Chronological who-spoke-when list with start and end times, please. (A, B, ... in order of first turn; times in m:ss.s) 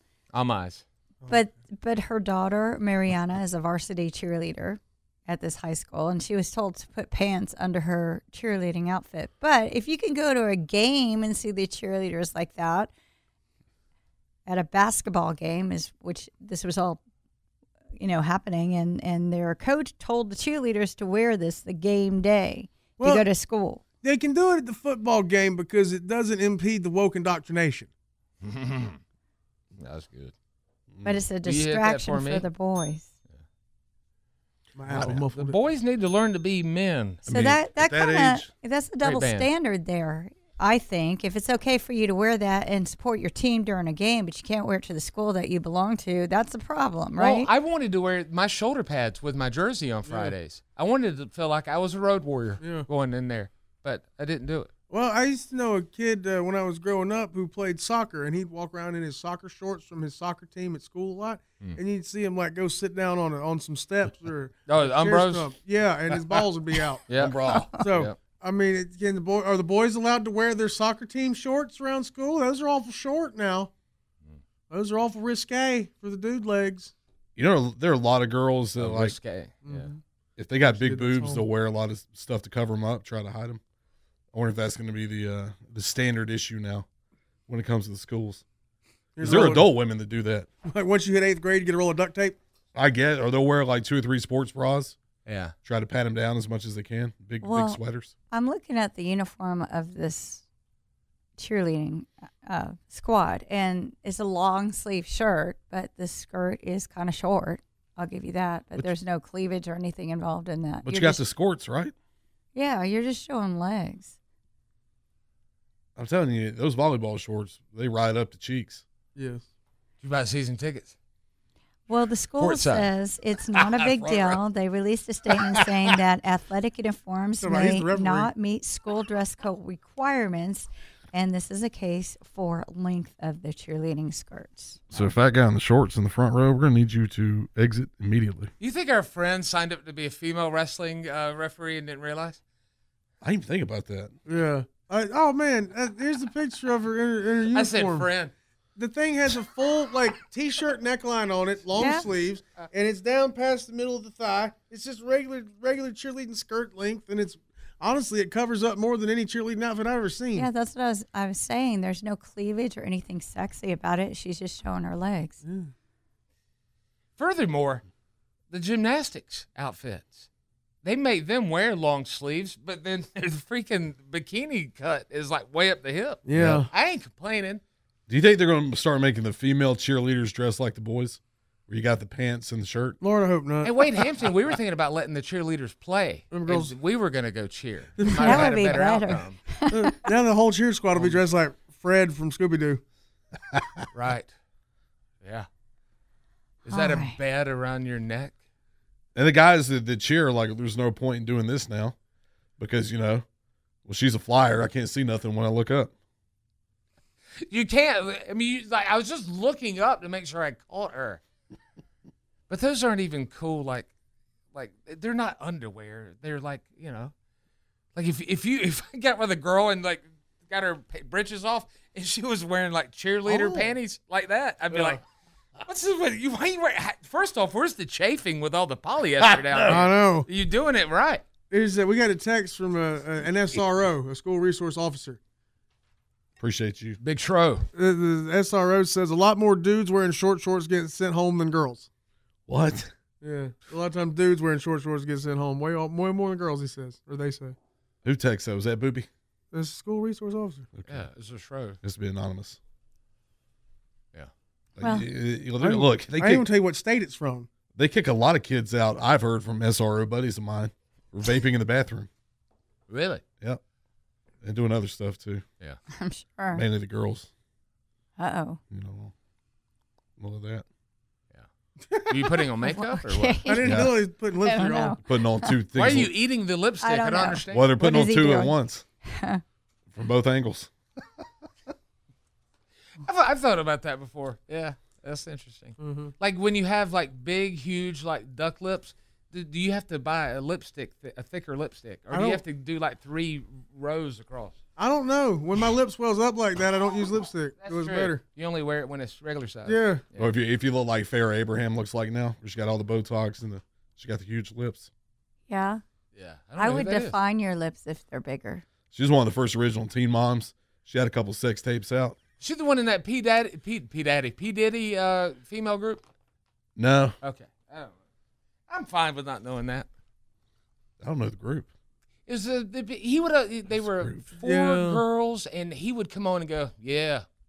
0:00.3-0:00.8 A
0:01.3-0:12.9 B
0:14.5-0:17.0 B
0:18.0-0:23.8 B
0:23.0-0:23.3 C
0:24.0-0:27.9 C
0:28.4-0:29.0 A
0:29.8-0:30.3 A
0:31.0-0:31.3 D
0:31.0-0:33.1 B
0:31.4-0:32.5 A
0:34.8-0:35.6 C
0:35.0-0:37.2 A
0:37.3-0:38.5 D
0:37.3-0:47.5 B
0:39.0-0:39.5 A
0:47.2-0:54.7 A
0:50.1-0:50.3 C
0:52.6-0:52.9 C
0:54.9-1:07.0 C
1:04.7-1:05.5 A
1:07.1-1:08.2 A
1:07.1-1:07.7 D
1:07.5-1:07.8 B
1:07.8-1:13.7 C
1:14.7-1:16.9 C
1:17.4-1:19.2 D
1:18.8-1:19.9 A
1:19.6-1:20.0 C
1:20.4-1:23.6 D
1:20.7-1:21.4 C
1:24.3-1:26.9 D
1:27.5-1:28.4 D
1:29.2-1:29.7 C
1:29.2-1:30.5 D
1:30.6-1:32.4 C
1:32.7-1:35.0 D
1:35.3-1:35.5 A
1:35.6-1:38.1 D
1:37.4-1:40.4 B
1:41.4-1:51.2 B
1:50.8-1:51.9 D
1:52.6-1:54.2 B
1:56.0-1:58.8 D
1:59.2-1:59.4 C
2:00.0-2:01.0 A
2:01.9-2:14.8 B
2:02.4-2:02.9 A
2:03.6-2:04.4 D
2:05.3-2:05.9 D
2:07.4-2:08.3 C
2:14.9-2:18.5 D
2:18.6-2:22.4 A
2:23.2-2:24.1 D
2:24.3-2:28.1 C
2:27.5-2:28.3 A
2:28.8-2:40.5 C
2:31.7-2:32.1 B
2:40.3-2:45.4 B
2:45.4-2:45.7 C
2:47.2-2:47.8 A
2:48.5-2:50.3 A
2:50.8-2:57.6 A
2:56.2-2:56.7 C
2:56.4-2:56.6 D
2:58.1-3:03.0 D
3:03.0-3:04.0 C
3:03.6-3:09.4 A
3:06.3-3:06.7 C
3:08.0-3:08.6 C
3:08.1-3:10.0 B
3:09.7-3:12.8 C
3:10.9-3:11.2 A
3:13.9-3:14.3 A
3:15.2-3:15.5 A
3:16.6-3:17.2 B
3:16.7-3:18.4 A
3:19.2-3:22.0 D
3:22.6-3:23.2 D
3:23.9-3:25.9 D
3:27.4-3:31.2 A
3:32.5-3:33.9 A
3:34.5-3:37.1 A
3:38.0-3:45.0 A
3:43.3-3:43.7 C
3:45.6-3:51.2 A
3:49.3-3:49.7 D
3:49.7-3:50.3 C
3:51.5-3:55.2 C
3:56.4-3:57.0 D
3:57.0-3:57.7 A
3:57.8-4:01.9 C
4:02.5-4:02.9 D
4:03.2-4:07.6 C
4:08.0-4:09.1 D
4:09.5-4:10.7 C
4:10.7-4:11.1 D
4:10.9-4:11.8 A
4:11.8-4:12.6 D
4:14.8-4:16.5 D
4:14.8-4:15.1 B
4:15.6-4:17.5 C
4:17.8-4:22.1 D
4:22.9-4:23.2 A
4:24.4-4:25.4 D
4:25.9-4:26.6 B
4:26.5-4:27.3 D
4:28.2-4:28.6 B
4:28.7-4:29.1 D
4:30.2-4:30.6 D
4:31.9-4:32.4 C
4:32.1-4:33.5 A
4:32.6-4:35.6 B
4:33.4-4:35.0 C
4:33.6-4:33.9 D
4:35.0-4:36.1 D
4:35.7-4:37.7 A
4:36.8-4:39.4 B
4:37.5-4:38.8 D
4:39.9-4:40.7 D
4:43.0-4:54.6 A
4:45.8-4:46.1 C
4:52.1-4:52.4 C
4:54.8-4:58.2 C
4:57.6-5:00.3 A
4:59.7-5:00.1 C
5:00.2-5:04.9 D
5:05.5-5:05.8 B
5:06.2-5:07.2 A
5:06.6-5:08.6 B
5:08.9-5:12.2 D
5:12.4-5:16.0 A
5:16.8-5:17.2 D
5:17.2-5:18.0 A
5:18.7-5:19.9 A
5:21.0-5:21.7 D
5:22.3-5:27.3 A
5:23.8-5:24.3 D
5:24.4-5:25.0 C